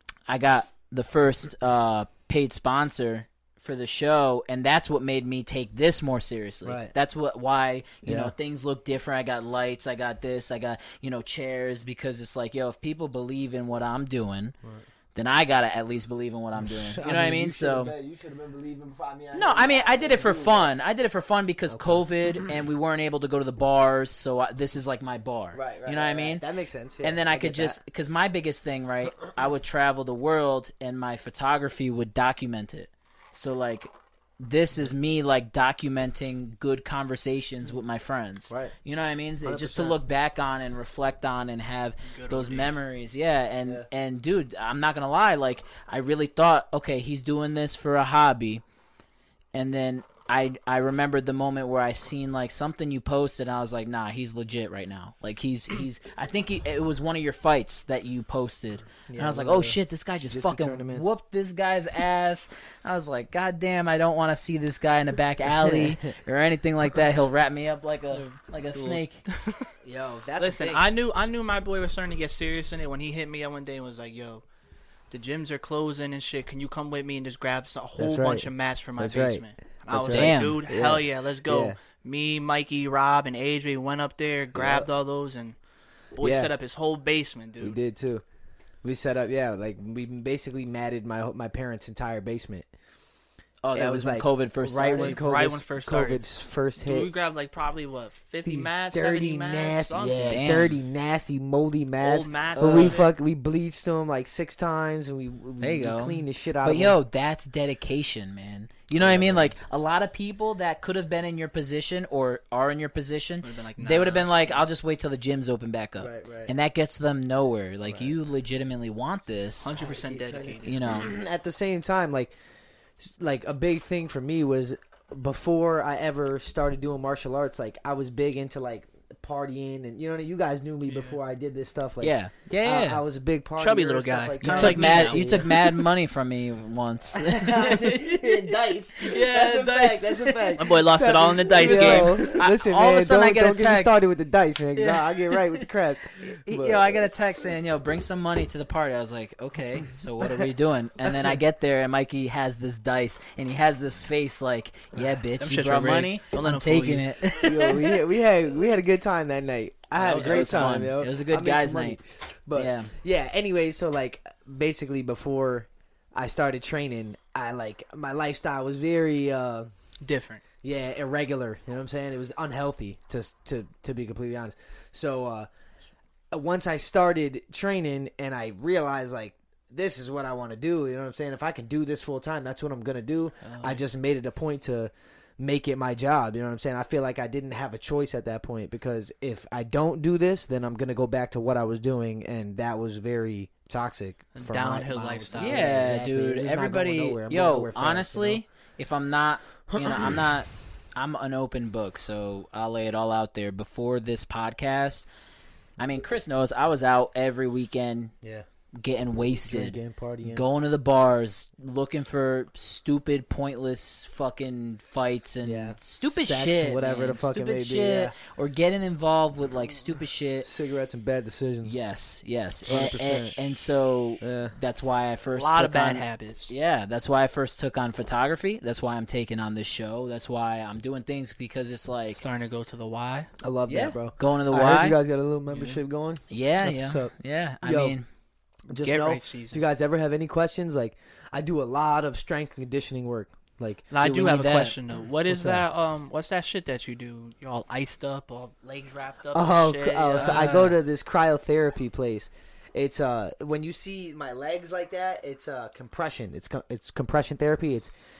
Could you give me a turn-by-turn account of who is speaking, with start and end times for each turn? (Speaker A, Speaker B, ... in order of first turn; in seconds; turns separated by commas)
Speaker A: 0.3-14.6, Speaker B: 6.7-6.9, Speaker B: 8.0-8.3, Speaker A: 15.2-17.9, Speaker B: 16.6-20.7, Speaker A: 19.3-26.4, Speaker B: 21.7-22.1, Speaker B: 25.5-27.8, Speaker A: 27.0-48.6, Speaker B: 39.4-40.0, Speaker C: 42.1-42.8, Speaker A: 49.5-69.2, Speaker B: 59.1-61.1, Speaker B: 65.6-66.1, Speaker C: 68.1-69.7, Speaker B: 69.8-70.9, Speaker C: 70.4-74.4, Speaker C: 75.1-85.5, Speaker B: 78.0-81.8, Speaker A: 80.1-80.6, Speaker B: 84.5-84.9, Speaker C: 86.2-87.8, Speaker B: 86.2-86.5, Speaker B: 87.6-88.2, Speaker B: 88.8-92.7, Speaker A: 93.6-95.2, Speaker B: 93.7-97.1, Speaker C: 94.9-96.2, Speaker C: 96.8-100.5, Speaker B: 98.5-107.0, Speaker A: 100.3-100.8, Speaker C: 102.0-103.1, Speaker A: 102.5-103.0, Speaker A: 105.6-119.7, Speaker B: 108.9-109.5, Speaker C: 113.4-114.6, Speaker B: 116.0-116.5, Speaker B: 117.8-118.2, Speaker C: 119.6-120.8, Speaker B: 119.7-122.3, Speaker A: 120.6-121.1, Speaker B: 123.1-135.7, Speaker C: 130.9-131.2, Speaker A: 132.0-133.0, Speaker C: 133.6-135.6, Speaker A: 134.4-140.6, Speaker B: 137.1-147.1, Speaker C: 140.6-142.3, Speaker A: 141.6-144.0, Speaker A: 144.8-145.7, Speaker A: 146.2-158.0, Speaker C: 155.4-157.1, Speaker B: 157.4-169.7, Speaker C: 160.0-160.8, Speaker A: 160.1-162.0, Speaker A: 162.6-162.9, Speaker C: 170.0-170.4, Speaker B: 170.6-175.5, Speaker B: 176.3-198.4, Speaker C: 183.4-183.8, Speaker C: 194.4-196.0, Speaker A: 195.4-205.1, Speaker B: 199.7-200.2, Speaker A: 205.8-208.1, Speaker A: 208.8-220.5, Speaker B: 209.4-210.4, Speaker B: 215.4-218.2, Speaker B: 220.4-221.7, Speaker A: 221.6-232.2, Speaker B: 222.7-223.4, Speaker B: 224.2-224.6, Speaker C: 225.3-226.5, Speaker C: 232.2-233.3, Speaker B: 233.4-238.0, Speaker A: 233.7-235.0, Speaker C: 235.5-235.8, Speaker A: 236.3-238.1, Speaker B: 238.7-243.9, Speaker C: 238.8-239.6, Speaker C: 243.9-250.8, Speaker A: 244.0-244.8, Speaker B: 245.3-245.7, Speaker B: 249.3-257.9, Speaker A: 250.2-250.5